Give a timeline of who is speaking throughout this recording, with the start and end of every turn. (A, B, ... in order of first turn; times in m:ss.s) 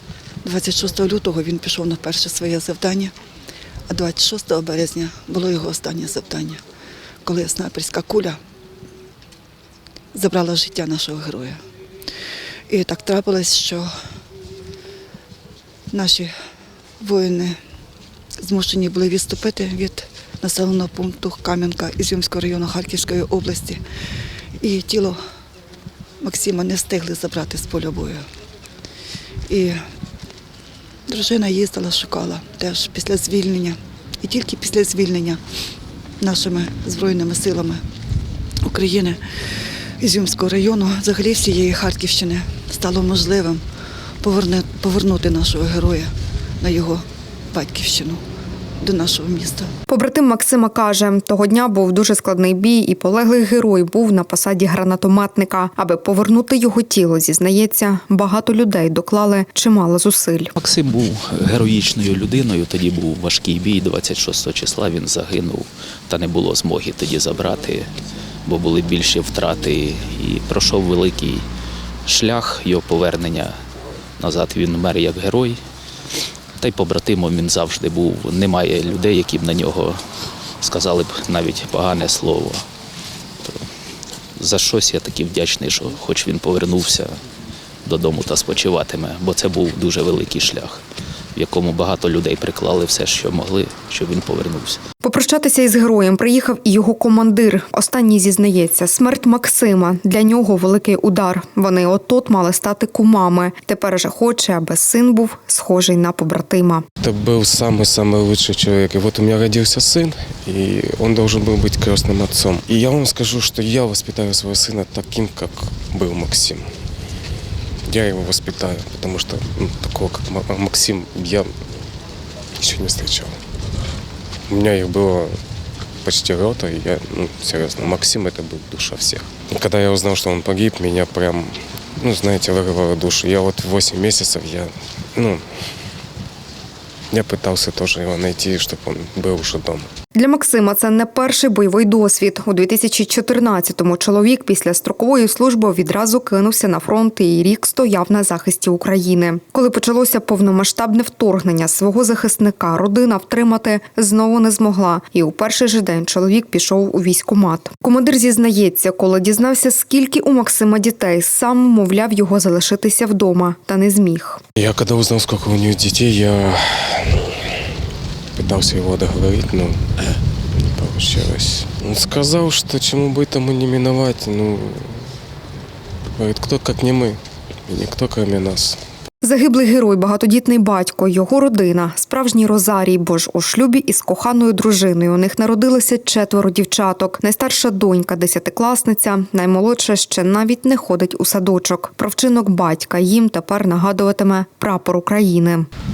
0:00.4-0:03.1 A
0:03.9-0:06.6 A
0:07.2-0:08.4 A
0:10.1-0:11.6 A
0:12.7-0:13.9 A
0:15.9-0:16.3 A
0:17.0-0:17.6 A
0:18.4-0:23.8 A
0:24.6-0:25.2 A
0:26.2-0:28.3 A
0:29.5-0:29.8 A
0:31.1-0:35.4 A
0:36.2-0:37.8 A
0:38.6-0:43.6 A
0:44.2-0:48.2 A
0:48.8-0:49.7 A
0:49.9-1:00.5 B
1:00.6-1:07.9 C
1:08.5-1:11.5 C
1:12.1-1:13.6 C
1:14.2-1:15.6 C
1:16.6-1:20.0 C
1:20.6-1:22.6 C
1:24.4-1:27.2 C
1:27.8-1:30.8 C
1:31.4-1:34.8 C
1:35.0-1:46.8 B
1:47.0-1:56.7 D
1:57.9-2:01.5 D
2:02.6-2:03.4 D
2:04.5-2:05.4 D
2:06.0-2:15.4 D
2:17.1-2:19.9 D
2:20.2-2:44.4 B
2:44.6-2:47.5 D
2:48.4-2:50.0 D
2:50.5-2:55.0 D
2:56.2-2:58.8 D
2:59.2-3:15.7 B